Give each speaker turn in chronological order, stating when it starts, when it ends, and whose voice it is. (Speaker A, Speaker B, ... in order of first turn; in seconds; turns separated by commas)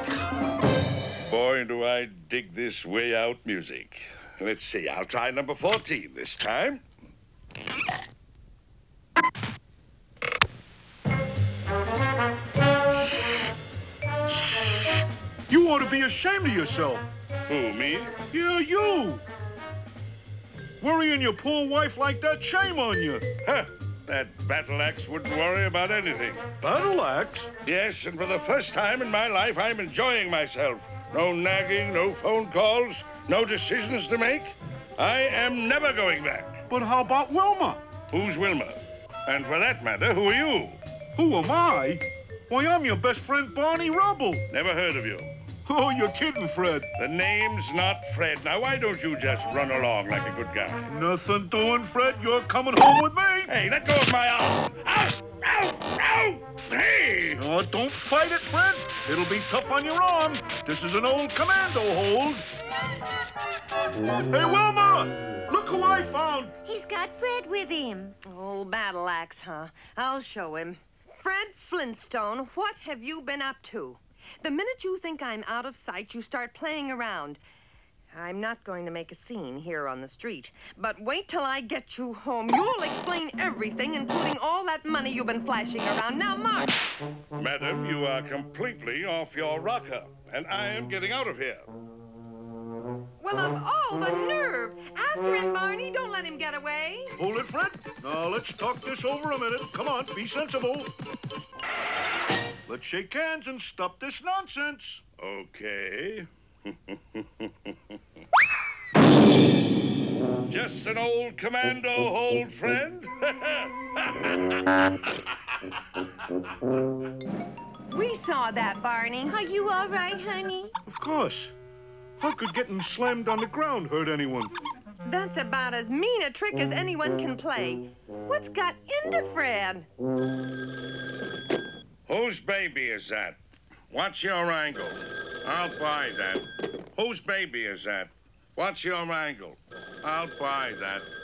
Speaker A: 1.2-6.8, Speaker B: 15.5-17.1, Speaker A: 17.5-18.2, Speaker B: 18.3-19.2, Speaker B: 20.8-23.3, Speaker A: 23.4-26.5, Speaker B: 26.6-27.5, Speaker A: 27.6-36.5, Speaker B: 36.7-37.8, Speaker A: 38.1-40.8, Speaker B: 41.1-44.4, Speaker A: 44.5-45.3, Speaker B: 45.6-46.9, Speaker A: 47.0-50.9, Speaker B: 50.9-53.5, Speaker A: 53.5-57.4, Speaker B: 57.4-62.5, Speaker B: 64.3-66.6, Speaker C: 66.6-68.2, Speaker D: 68.2-77.4, Speaker D: 78.1-86.9, Speaker A: 87.3-91.7, Speaker D: 93.2-97.2, Speaker B: 97.2-100.9, Speaker B: 102.7-105.0, Speaker A: 105.2-107.5, Speaker A: 110.5-114.5, Speaker D: 117.9-119.5, Speaker C: 119.3-120.7, Speaker B: 120.8-121.5, Speaker B: 122.2-124.5, Speaker D: 125.0-129.9, Speaker A: 132.1-133.4, Speaker A: 133.9-141.1